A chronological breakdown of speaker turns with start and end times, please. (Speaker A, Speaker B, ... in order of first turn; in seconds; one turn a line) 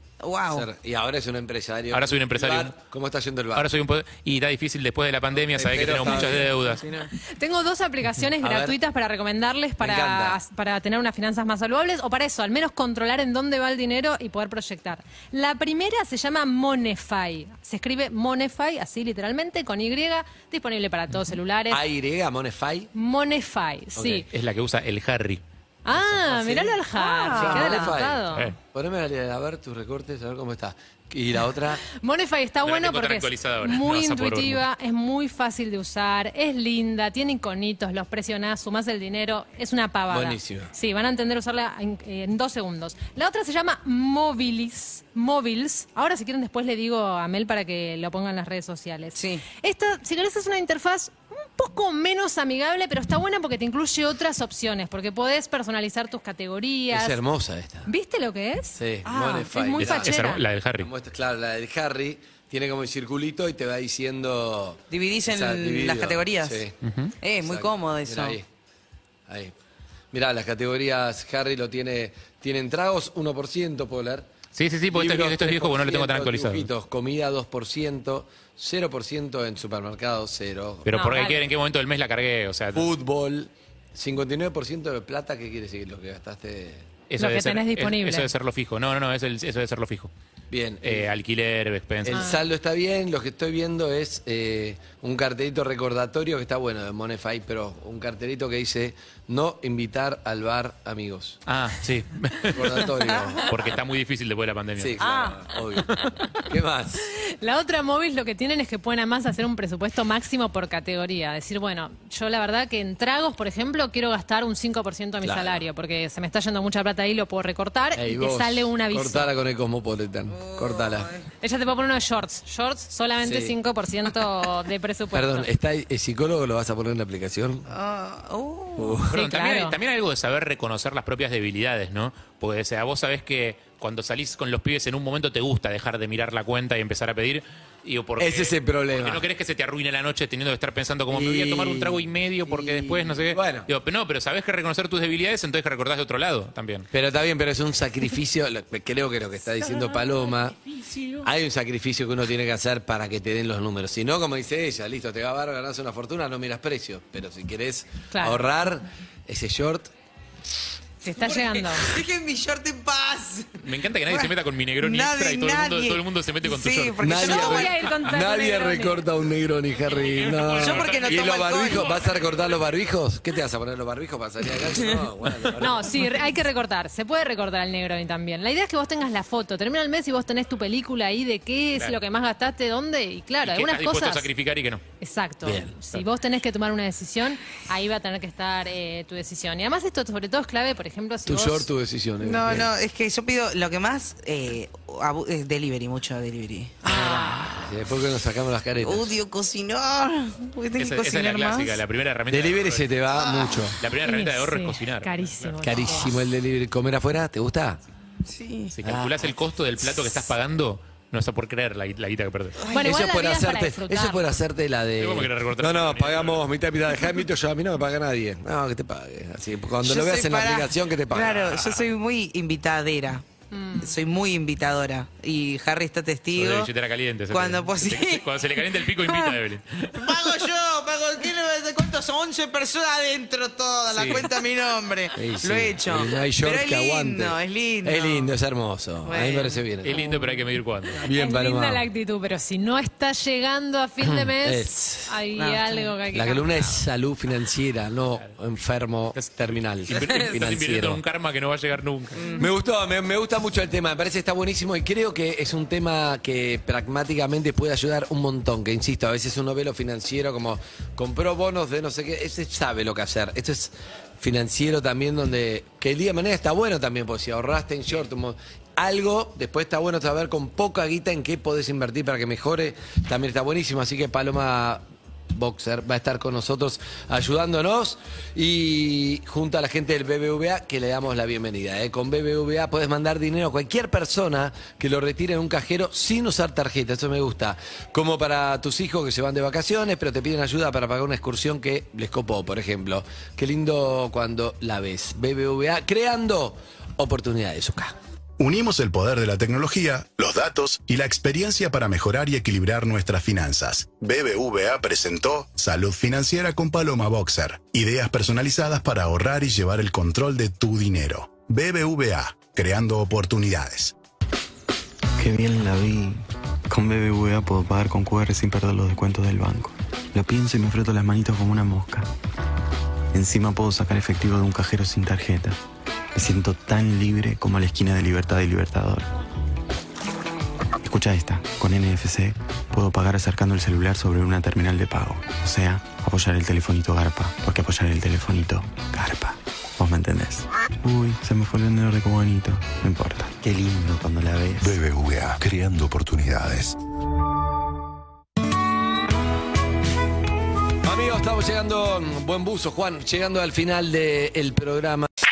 Speaker A: 0.2-0.7
Speaker B: 0.5-3.7
Speaker C: 1.9-2.9
Speaker C: 3.6-6.8
Speaker B: 5.4-6.5
Speaker A: 6.0-7.1
Speaker D: 7.2-21.8
Speaker B: 8.4-8.8
Speaker B: 9.8-10.4
Speaker B: 21.7-22.9
Speaker D: 22.9-24.3
Speaker B: 23.9-24.2
Speaker C: 24.3-26.2
Speaker D: 25.9-28.5
Speaker B: 26.4-26.8
Speaker A: 26.9-27.9
Speaker B: 27.3-31.8
Speaker D: 32.0-57.2
Speaker C: 32.6-34.6
Speaker B: 40.1-40.7
Speaker A: 49.1-49.5
Speaker B: 56.9-57.9
Speaker D: 57.9-58.8
Speaker B: 58.8-60.1
Speaker A: 59.0-60.0
Speaker C: 59.8-60.9
Speaker D: 59.8-60.4
Speaker B: 60.8-66.7
Speaker A: 64.9-66.6
Speaker C: 66.8-67.1
Speaker A: 67.2-68.4
Speaker B: 67.4-68.5
Speaker B: 69.3-69.5
Speaker B: 70.1-74.3
Speaker C: 74.5-76.7
Speaker B: 74.9-80.9
Speaker C: 80.8-82.9
Speaker D: 80.9-81.5
Speaker B: 82.7-86.9
Speaker C: 87.1-90.1
Speaker D: 87.2-88.3
Speaker B: 90.5-91.1
Speaker C: 90.8-92.3
Speaker B: 92.0-101.4
Speaker D: 92.1-92.4
Speaker C: 101.5-105.6
Speaker B: 102.5-103.4
Speaker A: 103.1-103.4
Speaker B: 104.8-107.1
Speaker A: 105.0-105.5
Speaker A: 106.1-106.4
Speaker D: 107.2-119.3
Speaker B: 115.2-115.6
Speaker B: 118.0-121.1
Speaker A: 120.3-121.3
Speaker D: 121.4-125.5
Speaker B: 123.2-123.5
Speaker B: 125.1-127.7
Speaker A: 127.7-129.0
Speaker B: 128.8-129.1
Speaker C: 129.1-146.9
Speaker D: 129.1-129.8
Speaker B: 138.2-139.2
Speaker B: 141.1-143.7
Speaker B: 146.9-150.6
Speaker C: 150.9-151.2
Speaker B: 151.2-159.9
Speaker D: 158.1-158.4
Speaker D: 161.0-161.9
Speaker A: 161.2-167.8
Speaker C: 163.6-167.5
Speaker B: 167.0-167.4
Speaker D: 167.1-169.0
Speaker B: 168.1-175.9
Speaker C: 169.8-172.5
Speaker A: 170.6-172.0
Speaker D: 175.6-184.3
Speaker C: 183.4-184.8
Speaker D: 185.0-191.7
Speaker B: 185.4-185.7
Speaker B: 191.3-192.7
Speaker A: 192.2-197.8
Speaker B: 196.8-199.2
Speaker A: 198.8-201.8
Speaker C: 200.8-203.3
Speaker B: 202.3-203.8
Speaker A: 203.2-203.6
Speaker C: 203.8-205.7
Speaker D: 204.0-206.1
Speaker B: 205.6-207.8
Speaker A: 208.2-208.8
Speaker C: 208.7-212.6
Speaker B: 208.8-209.2
Speaker A: 212.6-212.9
Speaker D: 212.7-214.4
Speaker B: 212.8-221.6
Speaker C: 215.0-216.4
Speaker A: 219.8-226.7
Speaker C: 221.2-221.9
Speaker D: 223.5-224.0
Speaker C: 226.3-230.4
Speaker A: 227.3-229.4
Speaker A: 229.9-238.4
Speaker C: 233.9-234.3
Speaker B: 235.1-240.0
Speaker A: 239.0-240.4
Speaker C: 239.8-241.0
Speaker B: 241.0-241.8
Speaker D: 241.1-246.8
Speaker B: 244.0-245.2
Speaker A: 245.3-246.0
Speaker B: 246.1-251.0
Speaker C: 249.1-252.2
Speaker A: 252.2-252.5
Speaker B: 252.4-297.9
Speaker E: 298.4-313.9
Speaker F: 315.2-322.1
Speaker F: 323.1-325.6
Speaker F: 326.1-329.1
Speaker F: 330.8-344.6
Speaker G: 344.6-346.7
Speaker B: 350.9-355.1